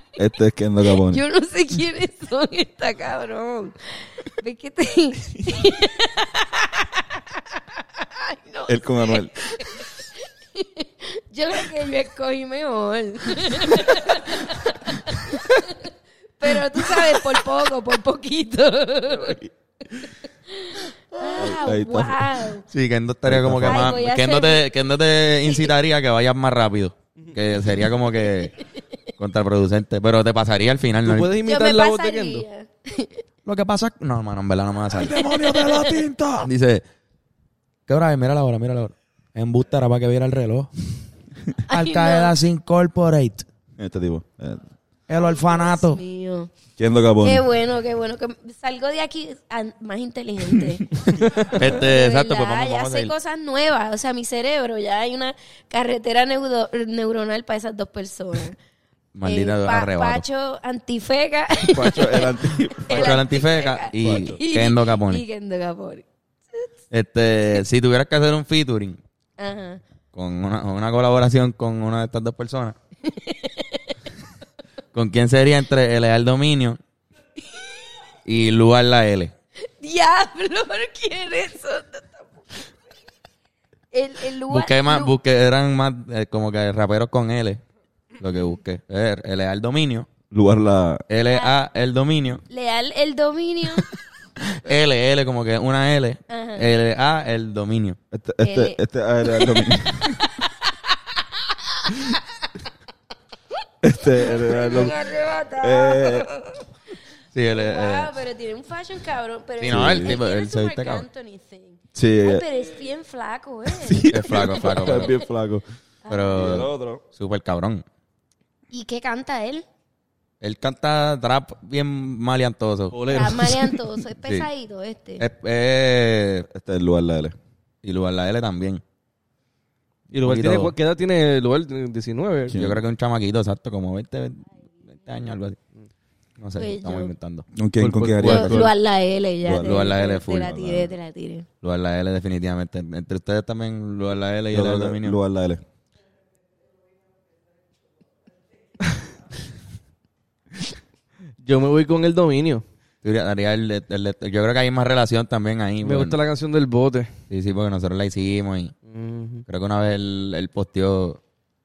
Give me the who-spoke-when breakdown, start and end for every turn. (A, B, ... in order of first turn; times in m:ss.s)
0:00.2-0:01.2 A
0:01.0-0:19.4 B
0:08.7-0:09.3 A
0:19.2-0:19.5 A
0:19.9-0:22.6 B
0:21.3-0:22.3 A
0:22.7-0:28.5 C
0:23.2-0:24.0 A
0:23.6-0:24.6 B
0:25.4-0:25.7 B
0:29.2-0:31.3 C
0:31.0-0:32.4 D
0:31.4-0:33.2 B
0:33.4-0:36.8 C
0:34.9-0:36.5 A
0:37.9-0:40.8 C
0:41.7-0:42.3 B
0:41.7-0:43.4 C
0:43.8-0:44.6 A
0:45.1-0:46.0 C
0:45.1-0:46.5 B
0:46.8-0:47.4 A
0:47.2-0:58.6 B
0:51.5-0:53.1 C
0:59.1-1:00.2 C
0:59.2-1:06.7 B
1:01.7-1:03.2 A
1:02.9-1:05.2 C
1:04.0-1:04.4 A
1:06.9-1:09.0 C
1:09.4-1:09.8 B
1:10.1-1:12.8 C
1:13.0-1:13.9 B
1:14.9-1:16.8 C
1:18.2-1:19.3 C
1:19.8-1:22.6 B
1:23.9-1:25.1 B
1:24.5-1:27.6 C
1:28.2-1:30.1 C
1:30.3-1:31.0 A
1:31.1-1:32.4 C
1:31.3-1:31.5 B
1:32.5-1:33.9 B
1:34.4-1:38.0 C
1:36.3-1:36.7 B
1:38.1-1:40.2 A
1:38.4-1:42.2 B
1:43.8-1:45.0 A
1:44.2-1:46.6 B
1:45.6-1:46.3 A
1:47.3-1:48.1 C
1:47.5-1:55.2 B
1:49.6-1:51.0 C
1:49.7-1:50.2 A
1:51.9-1:52.4 A
1:53.7-1:55.6 A
1:54.1-1:55.2 C
1:56.0-1:56.5 B
1:56.1-1:57.8 C
1:56.3-1:57.0 A
1:58.7-1:59.6 B
2:00.4-2:03.4 C
2:02.9-2:03.7 D
2:03.1-2:05.2 B
2:05.2-2:06.5 C
2:06.5-2:07.4 A
2:07.8-2:08.8 C
2:10.1-2:12.5 D
2:10.1-2:10.7 C
2:12.5-2:12.8 A
2:12.5-2:15.6 C
2:16.4-2:17.5 C
2:16.6-2:17.1 B
2:17.5-2:18.7 A
2:17.8-2:18.7 D
2:18.2-2:21.4 B
2:19.4-2:19.9 A
2:19.6-2:20.9 C
2:21.6-2:25.2 C
2:24.5-2:25.6 A
2:31.4-2:32.6 D
2:33.0-2:36.2 C
2:35.8-2:37.1 D
2:37.3-2:38.8 C
2:38.9-2:39.4 D
2:39.5-2:41.2 C